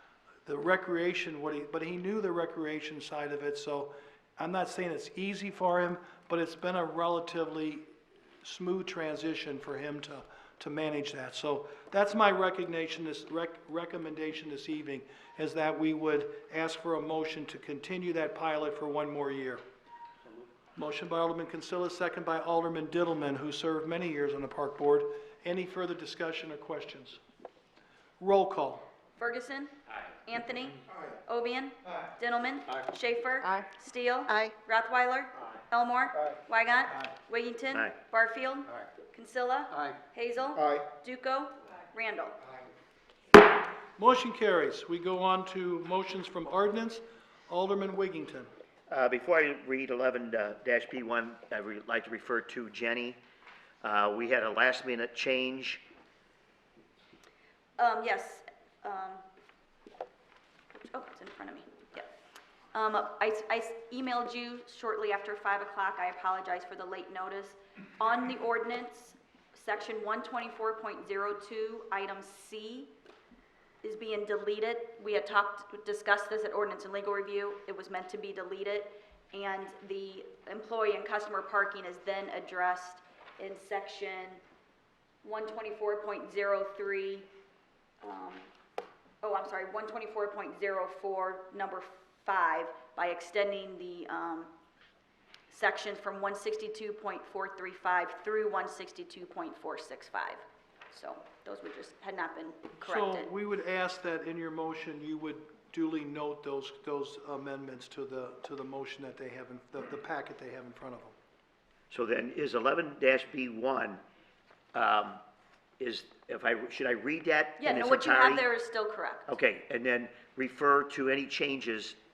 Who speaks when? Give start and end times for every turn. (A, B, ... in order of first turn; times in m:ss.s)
0:00.4-0:07.8 A
0:08.4-0:19.6 A
0:20.8-0:27.2 A
0:28.2-0:28.8 A
0:29.2-0:29.7 B
0:30.2-0:42.4 B
0:44.0-0:48.5 A
0:48.9-0:53.2 C
0:53.8-0:55.8 C
0:57.8-0:59.2 B
1:00.7-1:02.1 B
1:02.7-1:12.9 B
1:13.8-1:24.4 B
1:25.2-1:27.3 B
1:28.0-1:28.5 B
1:29.2-1:34.5 B
1:35.5-1:43.3 B
1:42.8-1:51.2 A
1:51.9-1:54.0 C
1:54.7-1:55.2 C
1:55.8-1:58.4 C
1:57.6-1:59.2 B
1:59.3-2:02.0 C